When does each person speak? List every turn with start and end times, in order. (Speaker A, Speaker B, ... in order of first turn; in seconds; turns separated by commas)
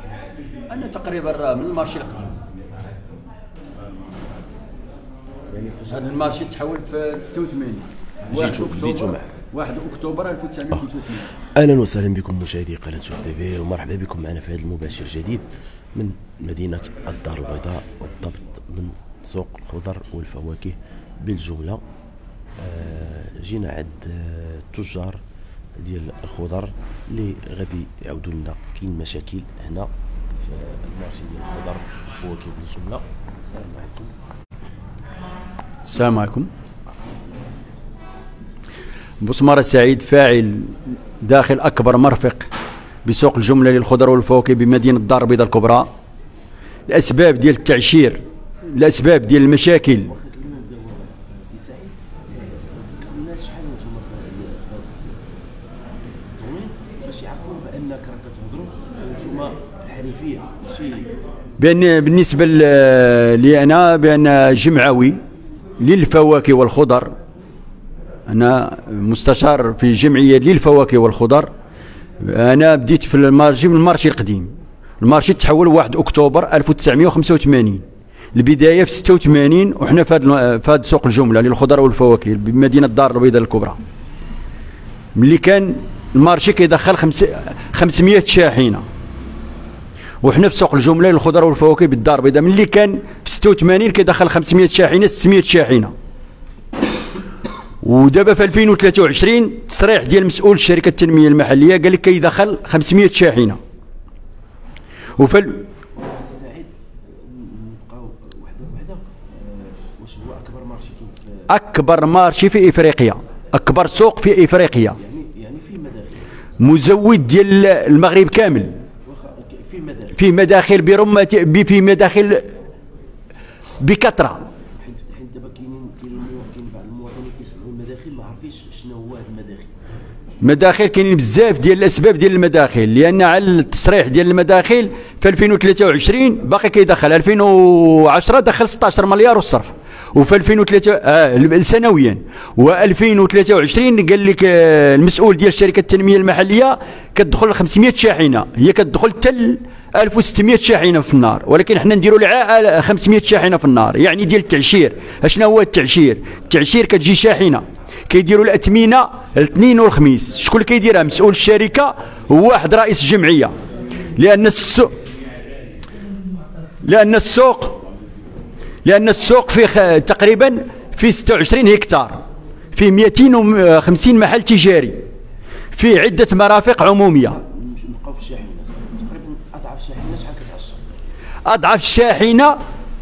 Speaker A: 0.7-2.4, Speaker B: 5.5-6.4, Speaker A: 5.9-11.3, Speaker B: 8.3-9.3, Speaker B: 11.6-21.8, Speaker B: 22.6-25.2, Speaker B: 25.8-29.9, Speaker B: 30.5-34.1, Speaker A: 35.9-36.5, Speaker B: 36.9-37.8, Speaker A: 39.2-42.5, Speaker A: 43.0-45.9, Speaker A: 46.9-50.1, Speaker B: 49.9-55.3, Speaker B: 56.4-61.1, Speaker A: 61.6-65.2, Speaker A: 65.8-67.1, Speaker A: 68.3-71.5, Speaker A: 72.2-77.8, Speaker A: 78.3-83.8, Speaker A: 85.2-88.8, Speaker A: 90.2-95.9, Speaker A: 97.8-103.6, Speaker A: 105.2-105.6, Speaker B: 105.9-111.5, Speaker A: 111.5-115.0, Speaker B: 115.0-116.3, Speaker A: 116.6-118.8, Speaker B: 119.1-120.2, Speaker A: 120.2-122.5, Speaker A: 123.8-124.4, Speaker B: 124.8-129.8, Speaker A: 130.4-163.5, Speaker A: 164.2-164.9, Speaker A: 166.8-167.8, Speaker A: 168.8-172.2, Speaker A: 172.7-175.0, Speaker A: 175.7-177.4, Speaker B: 177.3-180.9, Speaker A: 181.4-182.6